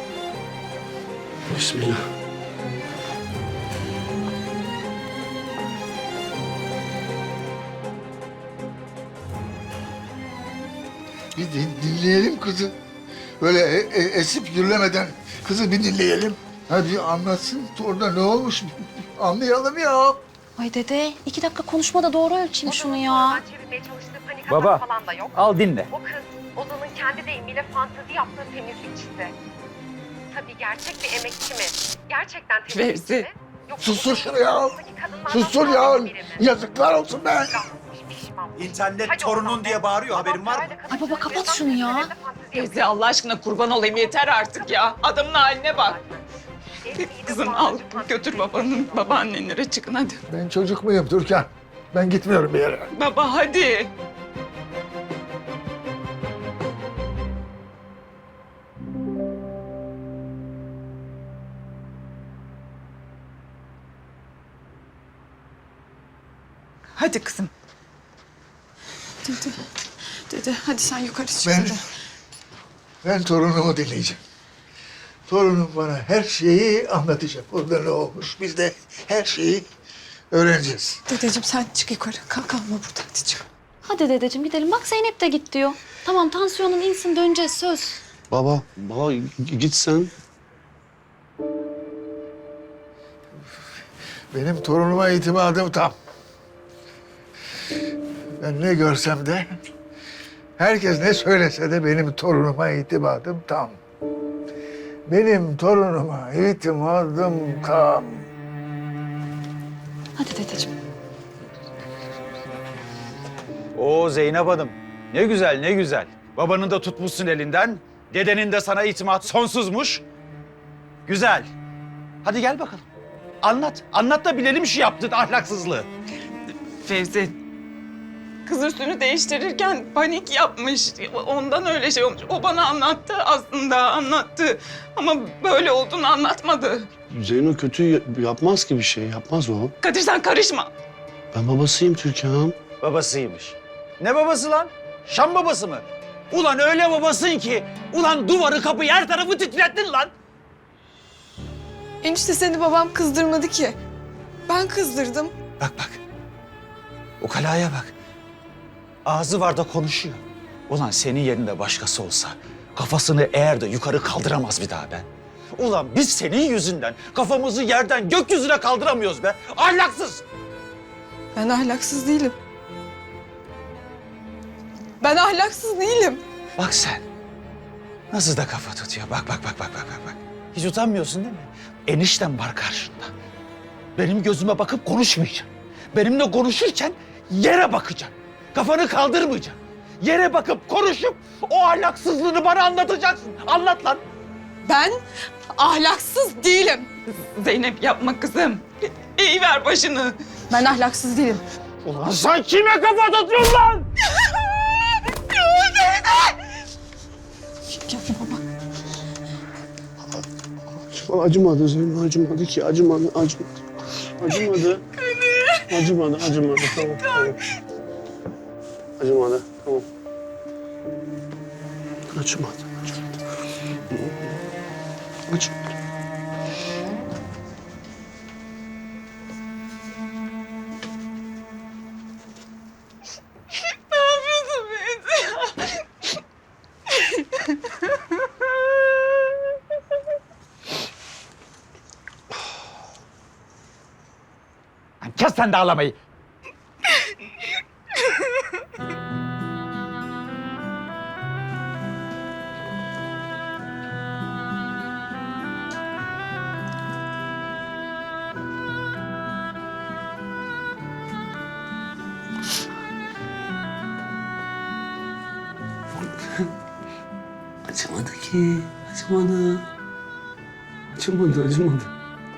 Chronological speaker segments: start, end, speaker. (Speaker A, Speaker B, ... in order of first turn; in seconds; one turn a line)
Speaker A: 1.5-2.0
Speaker B: 11.3-12.7
Speaker B: 13.4-20.2
Speaker C: 20.6-23.4
Speaker D: 22.6-29.3
Speaker E: 24.5-25.9
Speaker D: 30.3-36.5
Speaker F: 32.7-33.3
Speaker B: 33.8-37.6
Speaker D: 37.5-42.9
Speaker E: 38.5-40.8
Speaker C: 40.9-42.1
Speaker F: 42.5-46.0
Speaker D: 43.9-46.2
Speaker D: 46.8-49.2
Speaker F: 46.9-50.2
Speaker B: 50.3-52.9
Speaker F: 52.9-53.9
Speaker F: 67.0-67.5
Speaker G: 69.2-69.6
Speaker G: 70.3-71.8
Speaker B: 71.4-71.8
Speaker B: 73.0-74.2
Speaker B: 75.3-79.7
Speaker B: 80.3-81.0
Speaker G: 81.1-83.5
Speaker C: 83.8-88.0
Speaker A: 88.3-90.1
Speaker B: 94.3-95.9
Speaker B: 98.4-99.6
Speaker B: 100.6-103.8
Speaker B: 105.1-108.2
Speaker G: 110.2-110.7
Speaker E: 113.7-120.0
Speaker E: 121.0-121.5
Speaker E: 122.2-122.8
Speaker E: 123.4-125.9
Speaker F: 126.8-127.3
Speaker F: 128.4-136.9
Speaker A: 137.1-139.7
Speaker F: 139.8-140.7
Speaker A: 141.3-142.6
Speaker E: 142.8-150.1
Speaker G: 152.0-153.8
Speaker G: 154.5-155.3
Speaker E: 155.6-156.0
Speaker E: 157.2-157.9
Speaker E: 159.0-170.2
Speaker G: 171.3-172.3
Speaker G: 175.0-176.2
Speaker E: 176.6-177.0
Speaker E: 178.1-183.1
Speaker E: 183.9-194.0
Speaker G: 194.6-195.0
Speaker G: 195.5-196.9
Speaker F: 197.2-200.2
Speaker G: 200.5-201.4
Speaker E: 201.8-203.9
Speaker G: 207.7-208.4
Speaker A: 210.8-214.8
Speaker A: 215.7-217.4
Speaker A: 219.0-219.8
Speaker A: 222.1-223.1
Speaker A: 223.9-224.3
Speaker A: 225.3-225.7
Speaker F: 233.9-235.8
Speaker E: 245.0-245.9
Speaker A: 265.9-266.5
Speaker A: 267.7-269.6
Speaker A: 270.9-271.9